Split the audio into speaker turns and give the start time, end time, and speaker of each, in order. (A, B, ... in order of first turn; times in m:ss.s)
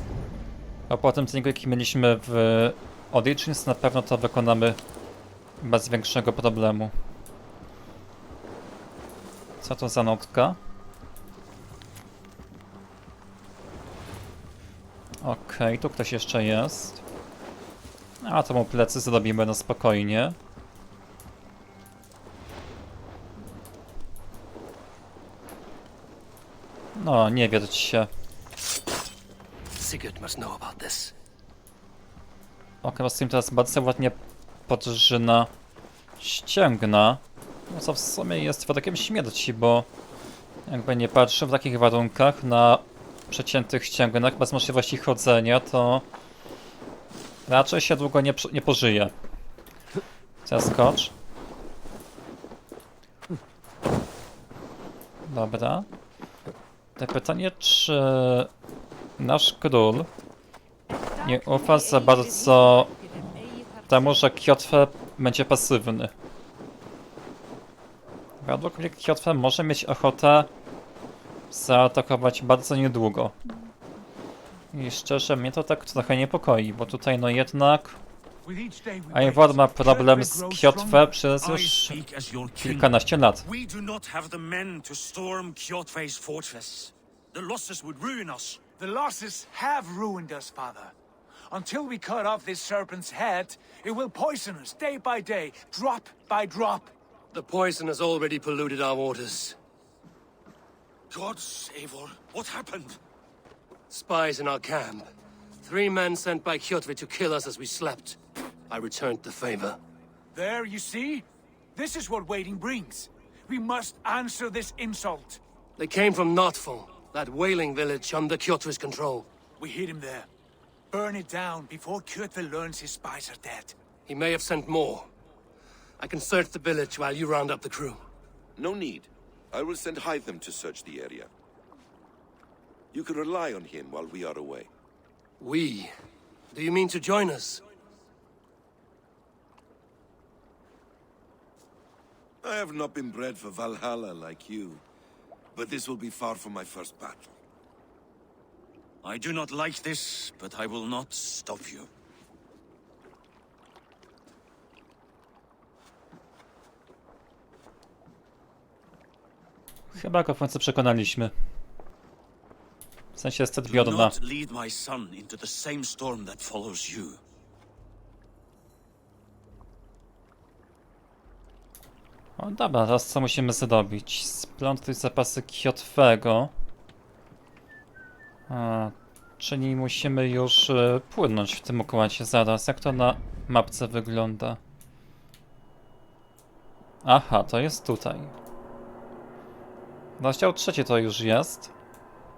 0:00.9-0:04.8 A
0:05.6-0:06.9 A
0:09.6-0:10.6 A
0:15.2-0:17.0 A
0:18.2-0:20.4 A
0:27.0-0:28.1 A
0:29.8-0:31.1 B
0:32.8-0:34.2 A
0:34.7-0:35.5 A
0:36.2-0:39.9 A
0:40.7-0:46.0 A
0:47.5-0:49.1 A
0:50.4-0:51.1 A
0:55.3-0:55.9 A
0:57.0-0:58.5 A
0:59.2-1:00.1 A
1:01.2-1:03.3 A
1:03.9-1:06.1 A
1:08.4-1:10.5 A
1:11.5-1:13.4 A
1:14.7-1:18.0 A
1:18.4-1:21.1 C
1:19.1-1:22.0 A
1:21.4-1:28.6 D
1:22.6-1:23.5 A
1:28.8-1:30.9 C
1:31.5-1:36.9 C
1:37.3-1:39.6 B
1:41.1-1:43.0 D
1:43.9-1:45.1 B
1:45.6-1:48.2 B
1:48.7-1:49.8 B
1:50.3-1:55.4 C
1:55.8-1:59.3 B
1:59.6-2:00.3 C
2:00.9-2:03.8 C
2:04.1-2:05.1 B
2:06.0-2:08.0 B
2:08.6-2:11.3 E
2:12.9-2:14.7 E
2:15.4-2:15.9 B
2:16.5-2:17.6 B
2:22.4-2:24.8 E
2:25.5-2:27.3 E
2:29.0-2:31.9 D
2:39.9-2:41.3 A
2:43.2-2:44.2 A
2:43.6-2:47.2 D
2:52.4-2:56.5 A
2:58.5-3:04.6 A
3:07.0-3:08.3 A
3:10.2-3:11.7 A